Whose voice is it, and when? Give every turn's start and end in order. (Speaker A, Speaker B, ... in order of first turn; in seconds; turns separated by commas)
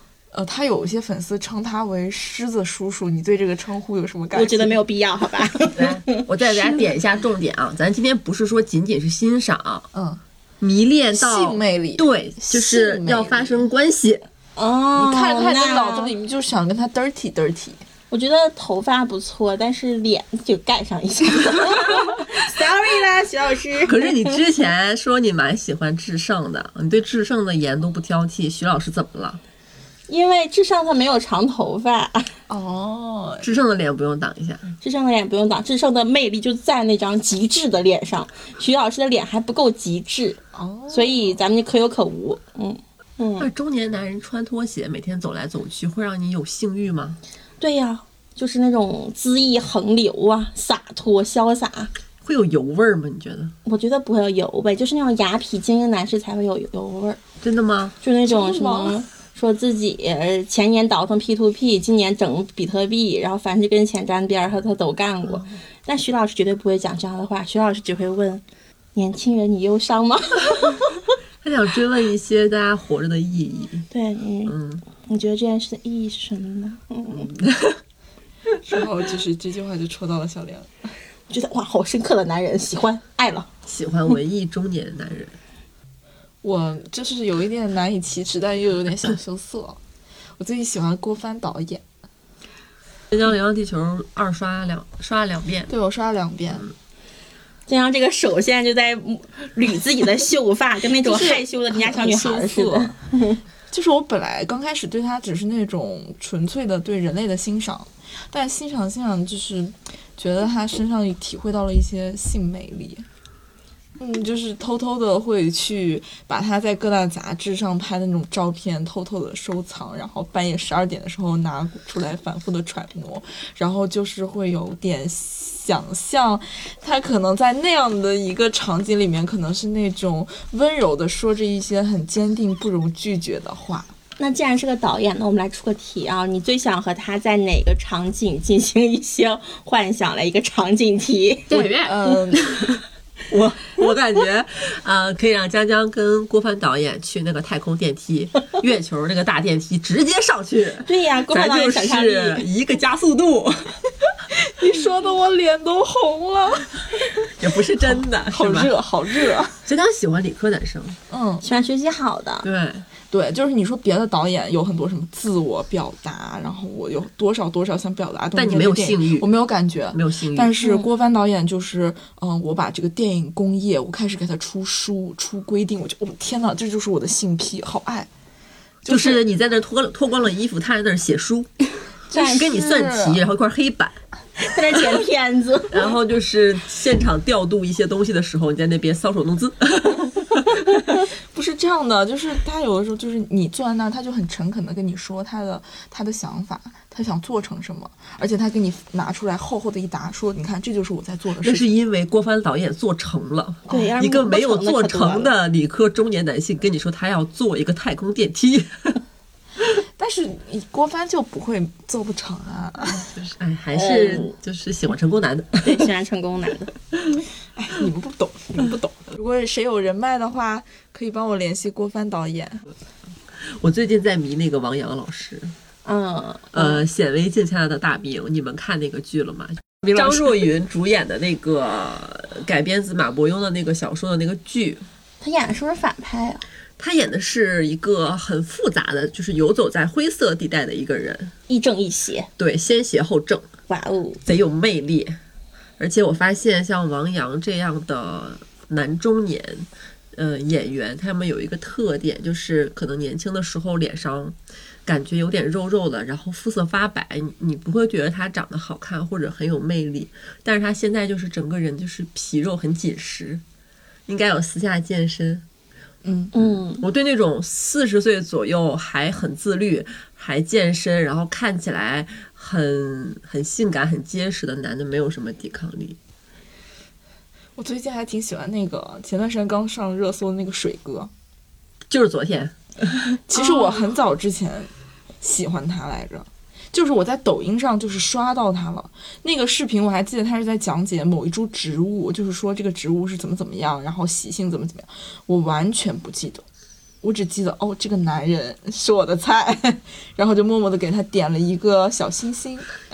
Speaker A: 0.3-4.8, Speaker B: 4.3-6.2, Speaker C: 5.7-9.9, Speaker D: 6.4-6.8, Speaker A: 9.9-10.2, Speaker C: 10.6-14.2, Speaker A: 11.1-13.6, Speaker B: 14.6-16.1, Speaker A: 14.9-17.8, Speaker B: 18.1-24.4, Speaker C: 23.8-29.4, Speaker B: 30.1-32.3, Speaker A: 32.5-33.5, Speaker C: 33.4-34.6, Speaker B: 34.8-43.5, Speaker A: 40.5-41.4, Speaker C: 43.4-47.2, Speaker B: 47.6-51.9, Speaker C: 52.2-53.5, Speaker B: 53.6-57.2, Speaker C: 57.4-57.9, Speaker B: 58.0-68.4, Speaker A: 58.2-59.0, Speaker B: 68.9-70.8, Speaker C: 71.4-73.8, Speaker B: 73.9-77.3, Speaker C: 74.5-74.8, Speaker C: 77.1-77.8, Speaker A: 78.5-80.7, Speaker B: 81.3-83.5, Speaker C: 83.7-85.4, Speaker A: 86.4-89.8, Speaker A: 90.4-91.8, Speaker C: 93.1-95.7, Speaker A: 95.7-96.7, Speaker B: 97.7-103.4, Speaker A: 101.0-103.0, Speaker A: 103.7-113.0, Speaker A: 114.0-133.9, Speaker B: 134.2-141.5, Speaker D: 141.5-142.8, Speaker A: 141.8-142.4, Speaker C: 143.3-153.8, Speaker B: 150.8-152.4, Speaker A: 154.4-157.3, Speaker C: 157.3-158.7, Speaker A: 157.8-159.6, Speaker C: 159.6-161.0, Speaker A: 161.1-161.4, Speaker B: 161.4-162.5, Speaker C: 162.4-162.9, Speaker A: 163.1-178.1, Speaker C: 168.3-169.3, Speaker C: 169.9-170.5, Speaker A: 178.8-179.2, Speaker C: 178.9-181.5, Speaker A: 182.1-183.2, Speaker C: 182.1-184.0, Speaker B: 184.4-185.8, Speaker C: 185.7-190.6, Speaker A: 191.3-201.7, Speaker C: 201.4-209.0, Speaker B: 203.7-205.3, Speaker A: 210.0-213.1, Speaker C: 213.0-215.8, Speaker B: 213.7-214.3, Speaker B: 215.6-216.7, Speaker A: 217.6-222.6, Speaker C: 223.4-225.5, Speaker B: 225.8-226.8, Speaker C: 226.5-234.8, Speaker B: 235.2-236.4, Speaker C: 236.8-241.3, Speaker B: 241.5-242.3, Speaker C: 242.4-243.4, Speaker B: 243.7-244.2, Speaker C: 244.2-245.2, Speaker C: 245.8-263.4, Speaker C: 264.1-265.4, Speaker A: 266.0-266.3, Speaker B: 266.3-266.8, Speaker C: 266.4-276.0, Speaker A: 277.6-281.1, Speaker C: 281.9-283.2, Speaker A: 283.3-284.7, Speaker D: 283.4-283.6, Speaker A: 285.2-296.4, Speaker A: 297.0-302.7